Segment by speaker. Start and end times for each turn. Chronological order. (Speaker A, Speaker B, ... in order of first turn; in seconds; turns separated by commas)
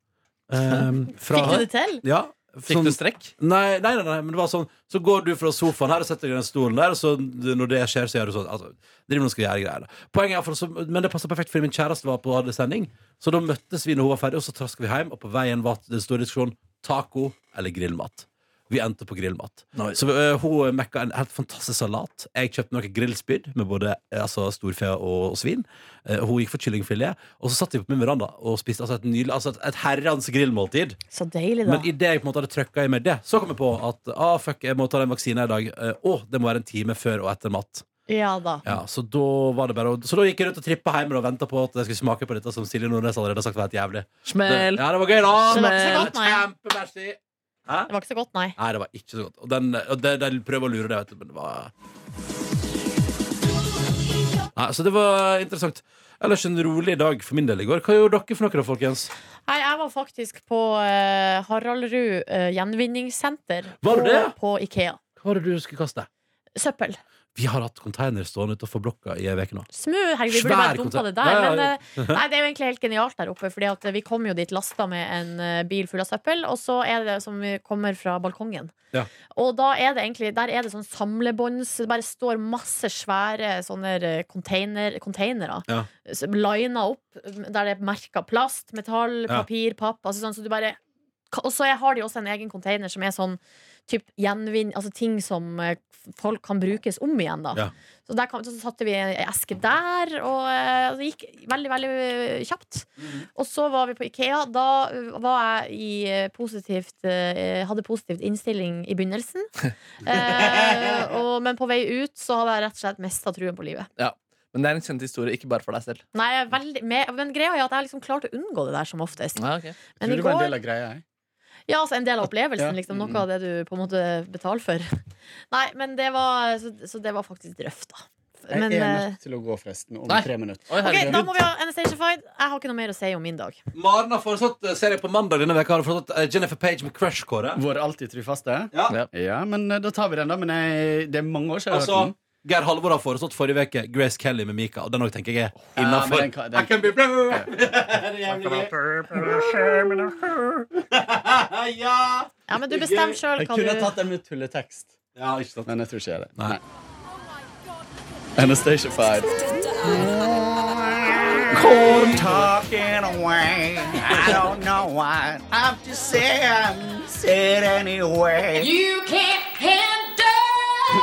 Speaker A: 0.5-31.0, Speaker B: 1.3-2.0, Speaker C: 2.7-3.3, Speaker B: 31.1-31.9, Speaker A: 31.6-37.9, Speaker B: 38.1-38.6, Speaker A: 38.6-47.9, Speaker C: 44.2-46.1, Speaker B: 45.5-46.4, Speaker B: 47.9-48.6, Speaker A: 48.6-51.7, Speaker A: 54.5-59.1, Speaker B: 59.5-65.0, Speaker A: 63.8-64.3, Speaker A: 65.2-66.1, Speaker B: 66.5-67.0, Speaker A: 67.3-69.7, Speaker B: 69.7-78.7, Speaker A: 70.3-72.2, Speaker B: 79.3-90.8, Speaker B: 91.3-109.5, Speaker A: 103.0-103.2, Speaker B: 110.0-113.9, Speaker A: 110.0-111.1, Speaker C: 114.0-116.0, Speaker B: 116.1-119.4, Speaker C: 119.4-119.8, Speaker D: 120.0-121.0, Speaker B: 120.0-120.6, Speaker B: 121.7-124.9, Speaker D: 122.6-123.1, Speaker B: 125.5-129.2, Speaker D: 128.5-131.2, Speaker C: 130.7-131.3, Speaker B: 130.8-133.6, Speaker A: 133.7-137.6, Speaker D: 137.6-142.1, Speaker A: 138.7-139.0, Speaker A: 141.7-150.1, Speaker D: 145.8-147.5, Speaker D: 148.3-150.6, Speaker A: 150.8-153.2, Speaker B: 152.5-153.9, Speaker D: 153.4-155.0, Speaker A: 155.1-155.7, Speaker D: 155.7-156.6, Speaker D: 158.3-160.4, Speaker E: 159.9-168.7, Speaker A: 161.5-162.5, Speaker D: 161.9-162.4, Speaker A: 164.1-164.5, Speaker D: 164.1-164.4